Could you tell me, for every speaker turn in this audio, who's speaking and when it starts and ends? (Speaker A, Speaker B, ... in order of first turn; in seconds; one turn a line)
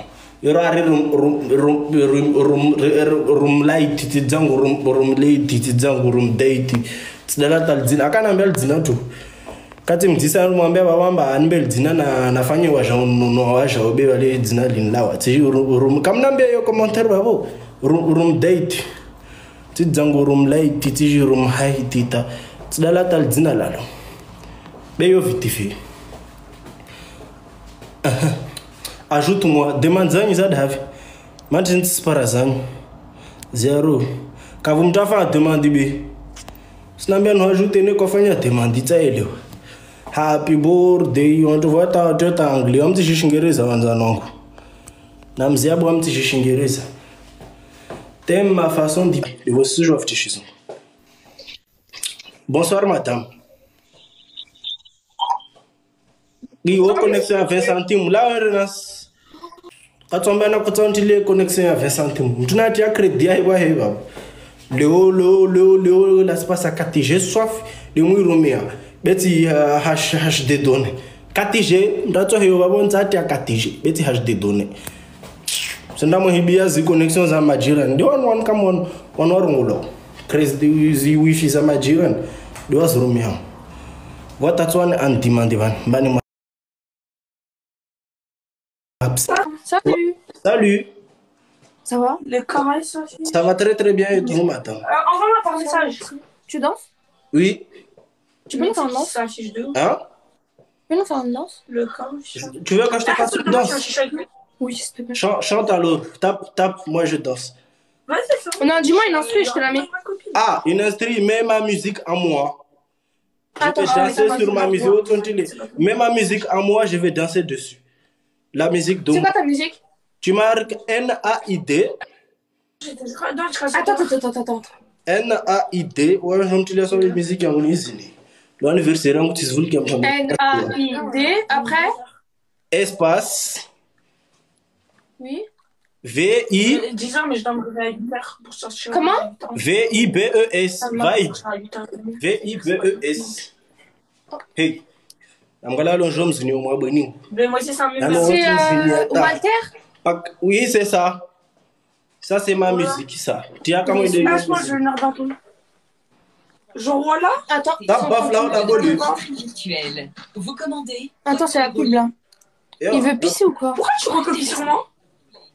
Speaker A: 0.4-9.0
Speaker A: 9.8-18.8
Speaker A: 19.7-23.8
Speaker A: 25.0-25.7
Speaker A: 28.0-28.4
Speaker A: 29.1-30.8
Speaker A: 31.5-32.6
Speaker A: 33.5-34.0
Speaker A: 34.6-36.1
Speaker A: 37.0-39.3
Speaker A: 40.1-44.3
Speaker A: 45.4-46.8
Speaker A: 48.2-50.5
Speaker A: 52.5-53.2
Speaker A: 56.6-59.1
Speaker B: 56.9-57.7
Speaker A: 60.1-64.0
Speaker A: 64.7-74.7
Speaker A: 75.9-83.4
Speaker A: 84.4-86.2
Speaker A: 89.0-89.3
Speaker C: 89.6-90.2
Speaker A: 89.8-90.9
Speaker C: 91.8-92.2
Speaker B: 92.2-93.5
Speaker A: 93.3-94.8
Speaker B: 94.2-96.0
Speaker C: 95.5-96.8
Speaker A: 97.3-97.6
Speaker B: 98.5-99.8
Speaker C: 98.5-99.1
Speaker A: 99.7-100.0
Speaker C: 100.9-101.6
Speaker B: 101.7-104.2
Speaker A: 102.3-103.8
Speaker C: 104.6-105.2
Speaker A: 105.1-107.5
Speaker B: 108.1-110.4
Speaker C: 108.6-109.9
Speaker A: 110.3-112.5
Speaker C: 113.6-114.9
Speaker A: 113.6-117.8
Speaker B: 113.8-115.8
Speaker A: 118.5-119.3
Speaker C: 119.1-119.8
Speaker A: 120.2-121.9
Speaker B: 122.8-124.1
Speaker C: 123.7-124.7
Speaker A: 125.1-130.7
Speaker C: 130.0-131.9
Speaker B: 130.6-132.1
Speaker A: 132.7-133.6
Speaker C: 135.2-135.4
Speaker A: 136.0-136.8
Speaker B: 136.6-139.6
Speaker C: 138.9-139.2
Speaker A: 139.5-141.4
Speaker C: 140.8-141.1
Speaker B: 141.1-143.4
Speaker A: 142.2-143.5
Speaker A: 144.5-144.8
Speaker A: 145.6-147.2
Speaker B: 147.3-148.4
Speaker A: 148.0-149.4
Speaker C: 148.1-149.7
Speaker A: 150.0-151.2
Speaker A: 152.2-154.8
Speaker B: 152.7-153.0
Speaker C: 153.8-154.5
Speaker B: 154.1-155.4
Speaker B: 156.7-157.4
Speaker C: 157.5-158.8
Speaker D: 157.8-162.0
Speaker A: 157.9-159.1
Speaker B: 158.5-159.5
Speaker C: 161.2-162.1
Speaker A: 162.8-163.4
Speaker C: 162.9-163.8
Speaker B: 163.7-164.8